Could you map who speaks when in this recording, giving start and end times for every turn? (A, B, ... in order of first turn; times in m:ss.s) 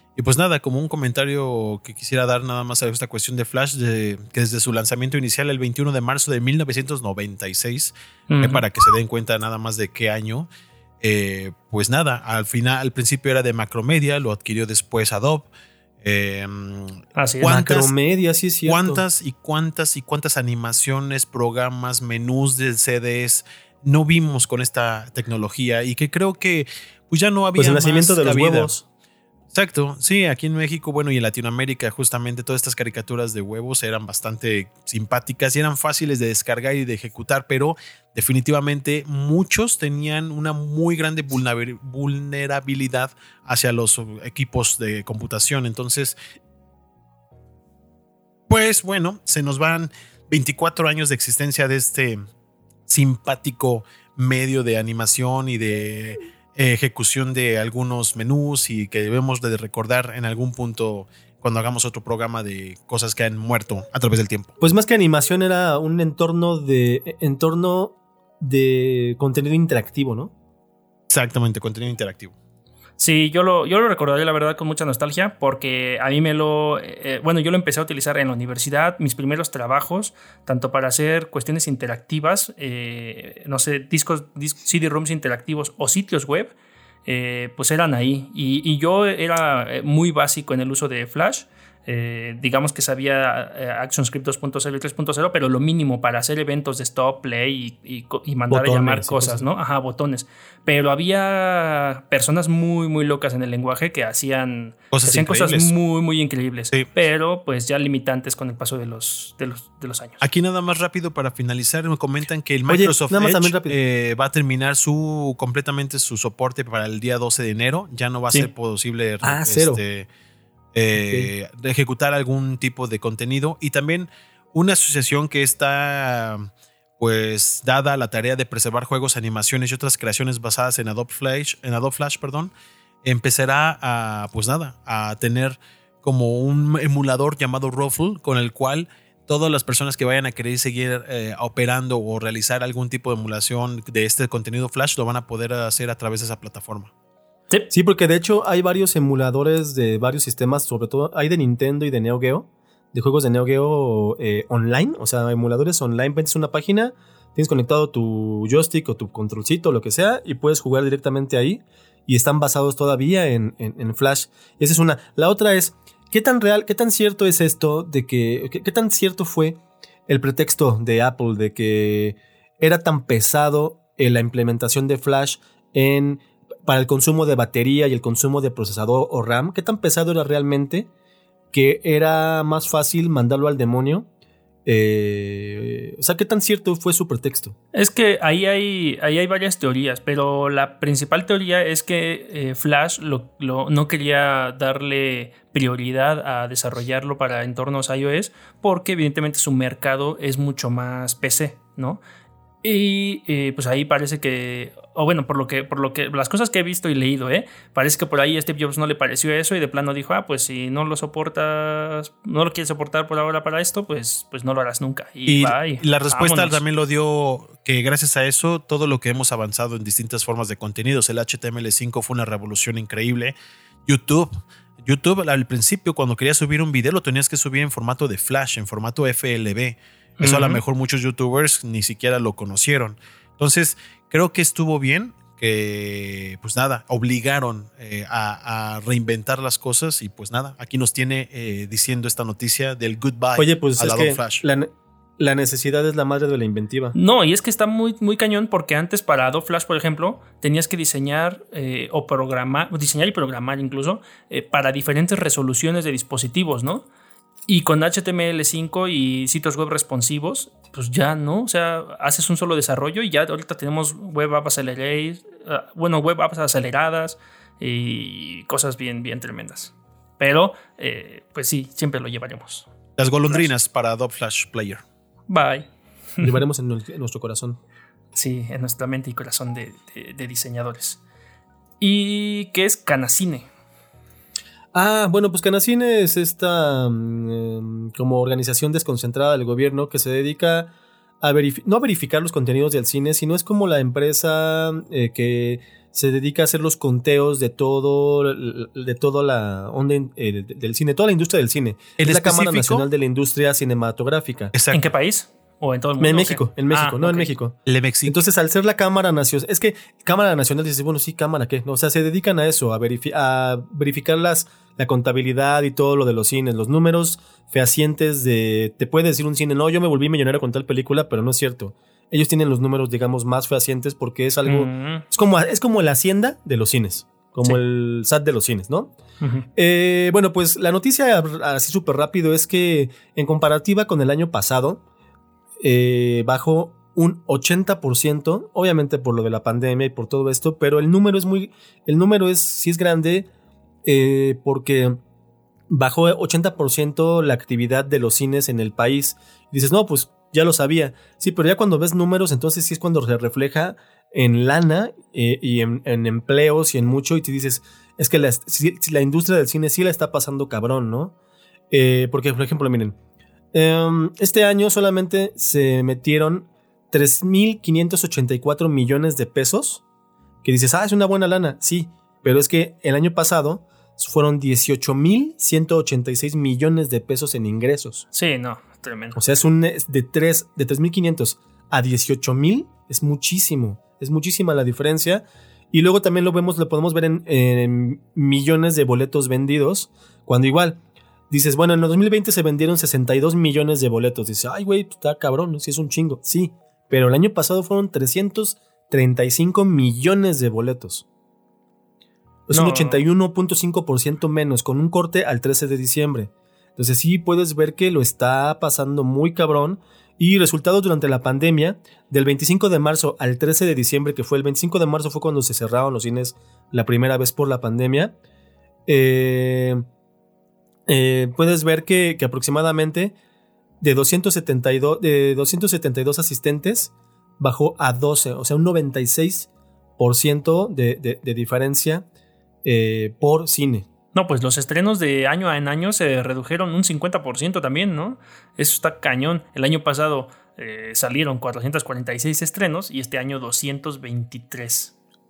0:00.2-0:10.5 A
0:08.3-0:08.6 B
0:11.0-0:15.5 A
0:16.0-0:17.9 A
0:17.2-0:17.5 B
0:17.4-0:19.0 C
0:18.6-0:28.8 A
0:27.6-0:28.8 C
0:29.5-0:46.1 A
0:48.5-0:52.2 A
0:52.9-1:04.5 A
1:04.6-1:10.3 C
1:11.1-1:12.3 A
1:13.0-1:26.5 B
1:27.1-1:50.2 B
1:38.5-1:39.4 C
1:44.9-1:45.7 A
1:50.2-2:00.1 A
1:52.7-1:53.8 C
1:59.2-1:59.8 C
2:00.7-2:12.5 A
2:01.0-2:01.3 C
2:13.0-2:26.9 A
2:27.7-3:00.9 C
3:01.5-3:04.1 C
3:04.6-3:07.6 C
3:07.7-3:22.0 B
3:22.6-3:36.6 B
3:35.3-3:43.4 A
3:43.9-3:44.3 A
3:44.8-4:04.4 A
3:50.2-3:50.6 B
4:03.4-4:07.0 C
4:07.0-4:16.9 B
4:17.5-4:32.7 B
4:33.0-4:34.8 A
4:35.3-4:36.4 B
4:36.2-4:37.6 C
4:38.1-4:41.0 B
4:41.8-4:43.5 B
4:44.7-5:04.5 C
5:02.0-5:02.9 A
5:04.5-5:04.9 A
5:04.7-5:07.3 B
5:06.0-5:28.9 C
5:07.7-5:08.2 A
5:24.4-5:25.0 B
5:29.2-5:29.5 B
5:29.5-5:34.8 C
5:35.6-5:43.3 C
5:43.8-5:45.0 C
5:45.7-6:01.2 C
6:01.7-6:03.0 C
6:03.5-6:09.8 C
6:10.4-6:18.0 C
6:18.1-6:19.2 B
6:19.2-6:30.8 C
6:31.3-6:41.0 C
6:42.5-6:58.1 C
6:42.5-6:43.0 B
6:58.9-6:59.8 C
7:00.9-7:03.1 C
7:03.8-7:12.0 C
7:12.6-7:13.9 C
7:14.1-7:24.9 B